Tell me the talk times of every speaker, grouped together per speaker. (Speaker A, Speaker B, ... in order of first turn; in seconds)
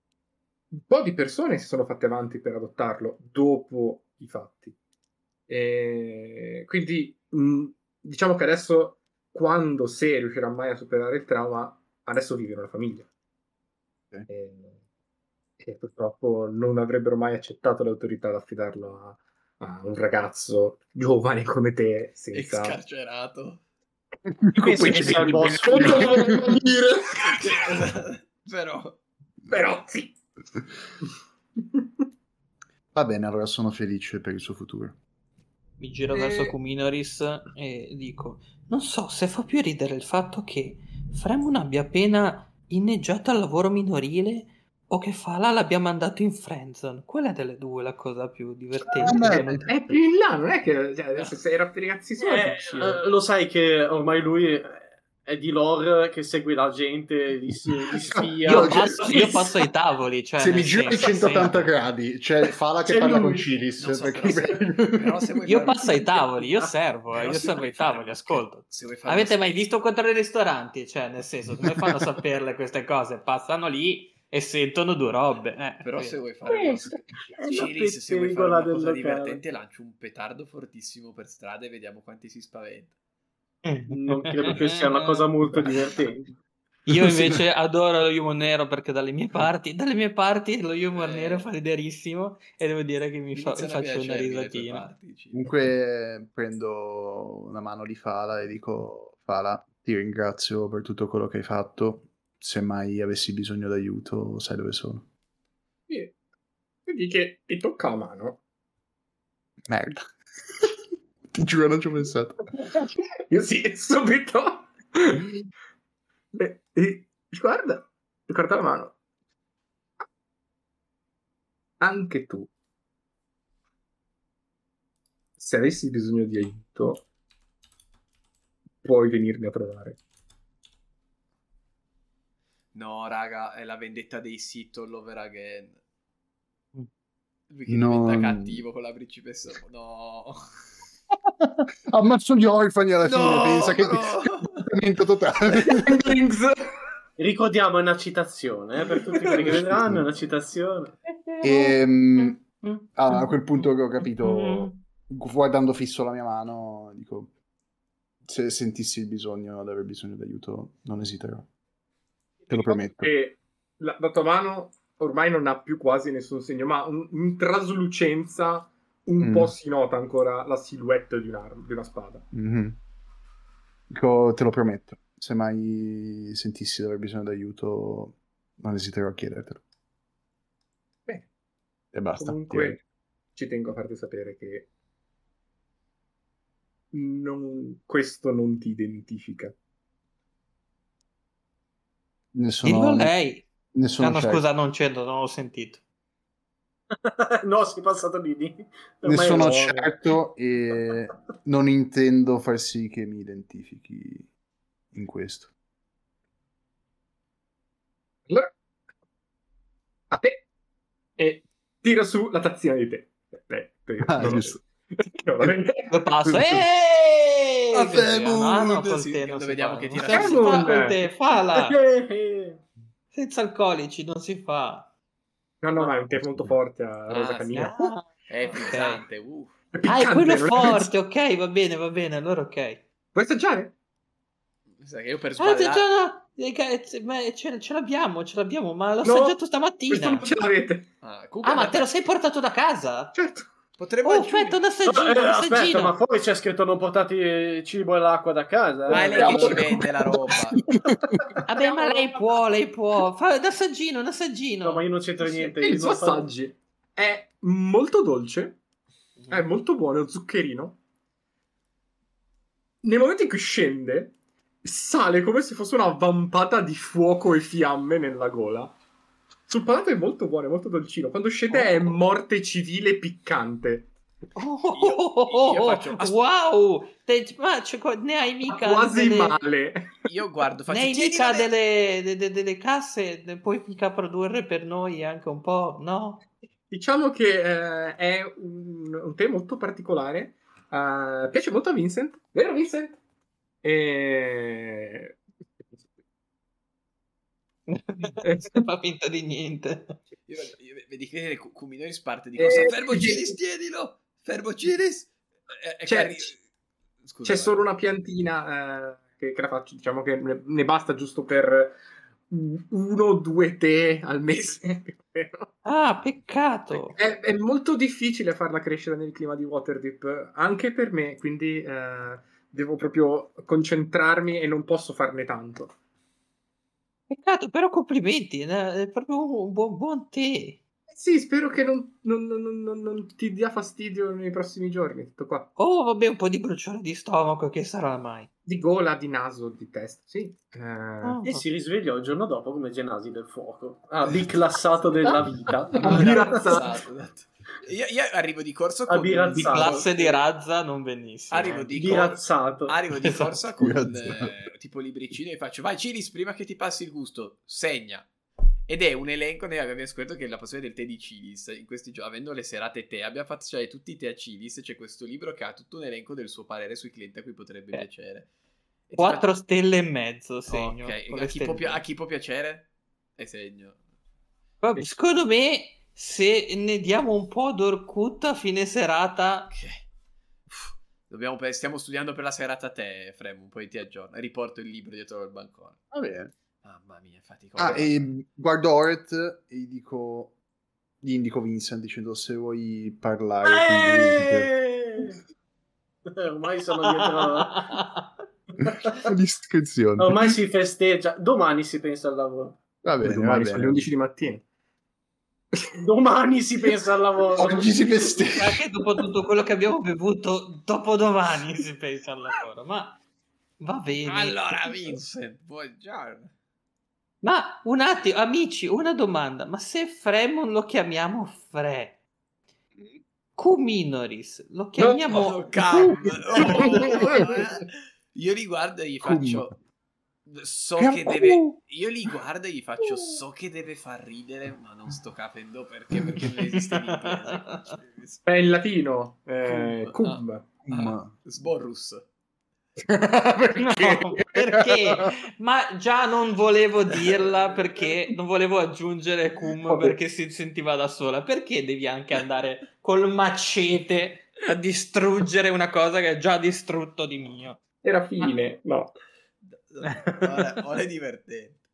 Speaker A: 0.7-4.8, 5.5-13.1, 14.3-14.8, 15.6-22.8, 24.8-27.6, 29.5-30.1, 36.1-36.5, 49.1-53.0, 59.0-59.5, 76.5-77.1, 105.9-106.1, 106.8-108.4, 112.6-115.3, 116.3-119.0, 121.8-122.5, 125.4-127.0, 128.8-130.0, 145.5-146.7, 149.2-149.5, 162.5-172.3, 182.2-182.8, 183.3-184.7, 186.9-189.5, 199.3-199.8, 210.1-210.4, 211.2-215.9, 220.0-221.1, 225.6-227.9, 229.7-230.9, 233.1-233.7, 239.0-239.4, 239.9-240.9, 243.1-243.5, 248.9-249.6, 251.4-252.3, 255.2-258.6, 259.3-260.8, 262.8-268.7, 269.5-273.9, 278.4-279.9, 286.7-293.0, 293.6-295.2, 298.2-298.6, 302.4-303.4, 305.9-306.3, 307.2-315.5, 316.7-325.7, 330.9-335.5, 338.4-341.2, 345.7-346.8, 403.0-404.4, 405.5-405.8, 426.4-427.4, 438.2-440.5, 442.8-444.3, 449.6-450.0, 457.8-458.9
Speaker B: 22.3-23.6, 27.2-29.0, 63.8-66.2, 67.1-69.6, 75.8-82.9, 90.9-91.5, 93.3-95.5, 132.7-135.8, 137.5-140.4, 143.0-144.7, 217.8-220.7, 227.1-227.7, 228.3-229.5, 234.8-235.9, 241.0-241.9, 243.8-244.6, 248.9-250.6, 274.7-276.2, 280.1-281.5, 300.3-306.4, 307.0-307.6, 345.8-350.0, 351.3-358.1, 358.7-368.3, 368.9-369.3, 370.5-373.8, 379.5-379.8, 381.1-385.8, 386.6-388.1, 414.0-416.3, 425.0-429.5, 430.2-438.2, 439.5-442.1, 459.4-461.6
Speaker C: 24.3-26.7, 32.9-35.0, 48.9-49.7, 58.1-59.3, 60.4-65.2, 86.9-87.4, 95.3-105.0, 109.7-110.0, 111.3-112.4, 137.7-138.6, 141.3-146.1, 149.4-150.0, 151.4-152.4, 152.9-157.3, 158.2-161.5, 162.5-163.1, 169.2-169.5, 172.3-172.8, 173.9-179.6, 181.9-182.8, 192.3-193.2, 193.7-194.4, 199.0-204.3, 204.9-205.5, 214.0-214.6, 216.3-216.6, 217.8-218.8, 250.8-251.2, 353.6-354.3, 385.9-386.3, 387.6-390.4, 391.0-394.5, 398.7-400.4, 402.8-403.9, 407.3-408.6, 429.0-429.4, 430.8-431.6, 440.6-441.1
Speaker D: 24.6-26.2, 52.2-59.0, 62.9-63.4, 77.4-79.4, 83.9-86.3, 147.2-150.9, 197.0-199.9, 221.4-222.6, 244.8-249.6, 254.6-256.3, 341.2-346.4, 348.9-350.2, 351.7-352.8, 393.4-395.2, 396.1-397.9, 398.6-399.0, 400.0-402.6, 405.8-407.7
Speaker E: 35.8-49.8, 58.5-61.7, 65.5-76.2, 83.6-85.7, 86.9-94.9, 151.1-153.3, 154.1-154.8, 192.6-193.5, 194.0-195.8, 215.9-221.8, 223.1-224.9, 227.5-229.0, 229.8-232.8, 235.4-240.3, 241.4-243.1, 244.0-246.0, 251.4-254.8, 271.5-271.9, 274.4-279.4, 280.7-286.2, 297.7-300.0, 315.6-317.0, 327.1-330.6, 335.6-338.3, 341.0-341.5, 349.4-352.0, 352.9-353.7, 368.9-371.8, 374.6-379.5, 397.0-398.0, 408.3-413.0, 413.6-414.9, 417.2-422.0, 423.4-427.2, 436.9-437.8, 443.6-457.6, 459.9-460.5